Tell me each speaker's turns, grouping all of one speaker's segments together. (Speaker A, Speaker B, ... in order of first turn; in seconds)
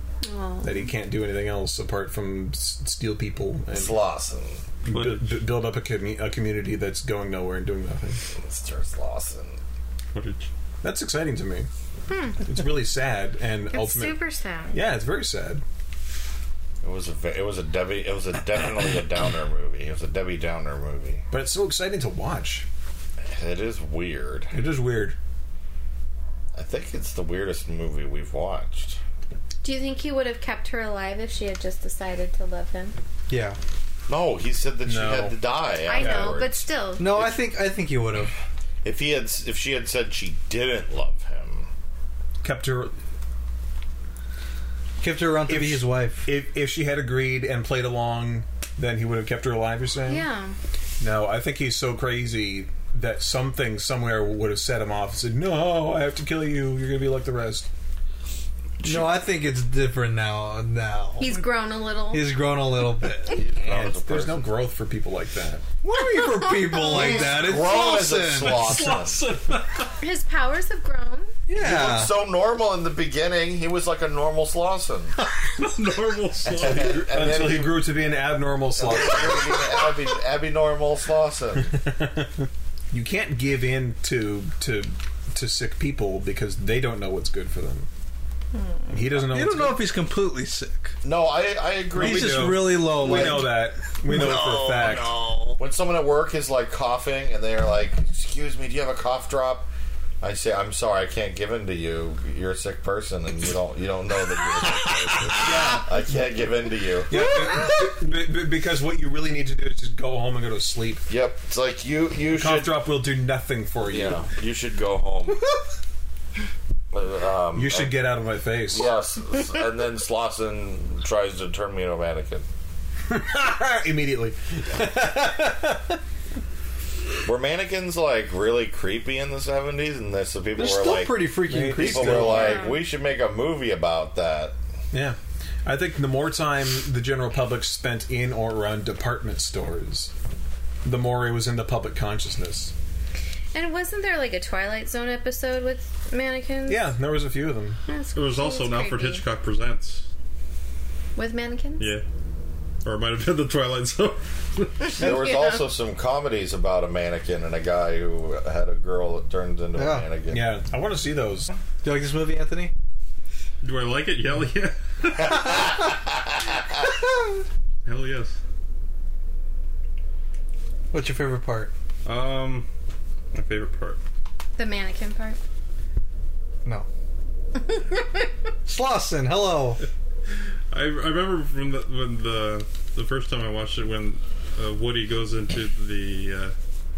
Speaker A: 0.2-0.9, 12.1-12.5, 13.7-14.8, 29.6-33.0, 35.8-37.1, 50.0-50.6, 61.2-62.4, 65.9-67.5, 70.0-71.3, 88.5-88.9, 132.3-132.8, 143.5-146.9, 147.9-149.2, 151.2-151.9, 154.9-155.6, 174.6-175.4, 177.7-178.2
Speaker B: 0.6-4.0, 4.8-8.2, 10.8-11.7, 12.4-14.2, 14.7-15.6, 21.3-22.6, 24.5-25.1, 34.8-35.4, 35.9-36.4, 42.4-42.9, 45.5-50.3, 51.0-57.7, 63.5-65.6, 76.6-79.6, 81.7-87.9, 88.9-89.8, 91.9-95.2, 105.4-106.2, 107.1-111.0, 112.3-114.3, 117.5-118.9, 123.1-126.0, 131.5-132.6, 134.9-140.1, 140.8-142.7, 146.7-147.8, 160.3-161.5
Speaker C: 3.7-4.6, 8.3-9.6, 16.8-21.2, 23.2-24.5, 26.5-29.0, 34.1-36.6, 38.8-41.7, 63.3-64.5, 66.9-69.2, 71.5-75.1, 76.4-77.9, 78.8-81.7, 91.0-93.5, 94.0-99.7, 100.2-107.2, 111.1-112.8, 113.8-115.4, 116.9-118.0, 118.7-122.5, 127.2-134.5, 154.9-160.6, 165.1-166.8
Speaker D: 4.9-5.4, 10.1-10.5, 68.4-69.9, 75.5-77.1, 148.1-150.1, 151.8-152.0, 152.8-154.9, 163.6-165.6, 167.8-168.4, 172.0-172.7, 173.3-174.0, 180.7-186.5
Speaker E: 33.3-33.6, 37.0-38.3, 45.0-46.3, 58.8-61.4, 62.1-63.4, 65.8-68.8, 71.5-72.1, 89.3-90.9, 91.9-93.6, 105.5-105.8, 130.6-132.4, 159.8-160.1, 161.8-162.7, 170.9-171.7, 178.7-179.8